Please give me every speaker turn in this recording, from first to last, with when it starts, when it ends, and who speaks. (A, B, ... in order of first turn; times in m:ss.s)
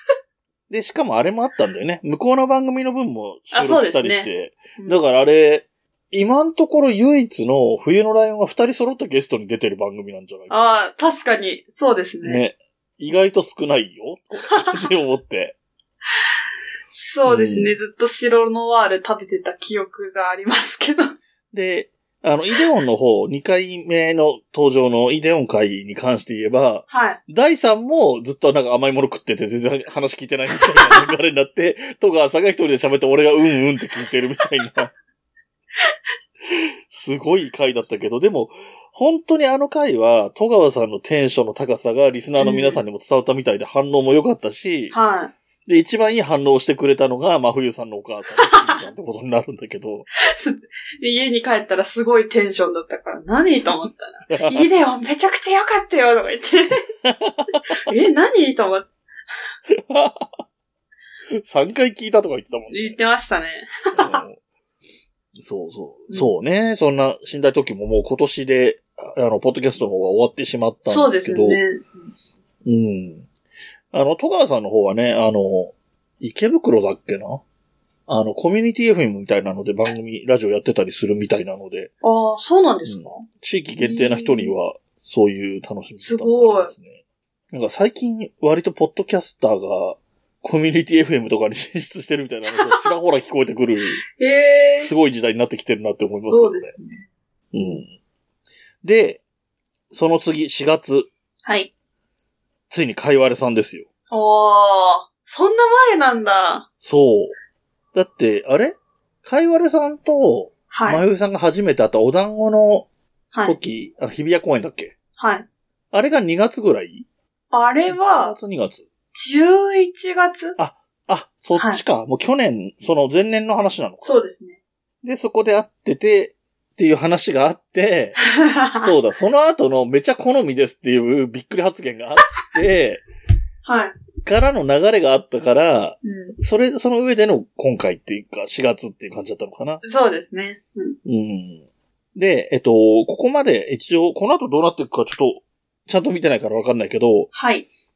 0:00.7-0:10.7 A
0:03.5-0:05.0 B
0:10.5-0:12.4 B
0:12.2-0:15.6 A
0:16.9-0:21.2 B
0:17.3-0:17.8 A
0:21.5-0:34.9 A
0:26.9-0:27.2 B
0:36.5-0:45.0 A
0:42.4-0:42.8 B
0:44.9-0:45.3 B
0:45.7-0:50.1 A
0:48.4-0:48.8 B
0:50.2-0:56.8 B
0:54.3-0:54.7 A
0:57.0-0:57.7 A
0:57.8-0:58.9 B
0:59.7-1:00.4 A
1:01.4-1:03.0 A
1:02.7-1:04.2 B
1:04.0-1:04.4 A
1:05.4-1:11.6 A
1:10.9-1:12.1 B
1:12.6-1:13.3 A
1:13.9-1:17.4 A
1:18.1-1:21.9 A
1:22.0-1:23.3 B
1:22.9-1:27.0 A
1:23.8-1:24.5 B
1:26.0-1:26.7 B
1:27.5-1:34.0 A
1:32.5-1:32.8 B
1:34.2-1:34.9 B
1:34.8-1:36.7 A
1:36.1-1:37.0 B
1:37.5-1:37.9 A
1:38.8-1:39.2 A
1:39.9-1:41.1 A
1:41.4-1:41.7 B
1:42.7-1:43.9 A
1:44.1-1:46.7 B
1:46.8-1:47.3 A
1:47.9-1:52.9 A
1:50.7-1:51.0 B
1:53.4-1:55.0 A
1:55.2-1:55.4 B
1:55.9-1:57.0 A
1:57.5-1:58.4 B
1:57.9-1:58.9 A
1:59.1-2:00.6 B
2:00.6-2:04.1 A
2:04.0-2:04.6 B
2:05.0-2:08.2 A
2:08.4-2:08.9 B
2:08.8-2:13.0 A
2:13.6-2:14.0 B
2:14.2-2:19.8 A
2:16.0-2:16.4 B
2:19.8-2:21.0 B
2:21.0-2:21.6 A
2:22.2-2:27.3 A
2:27.3-2:27.7 B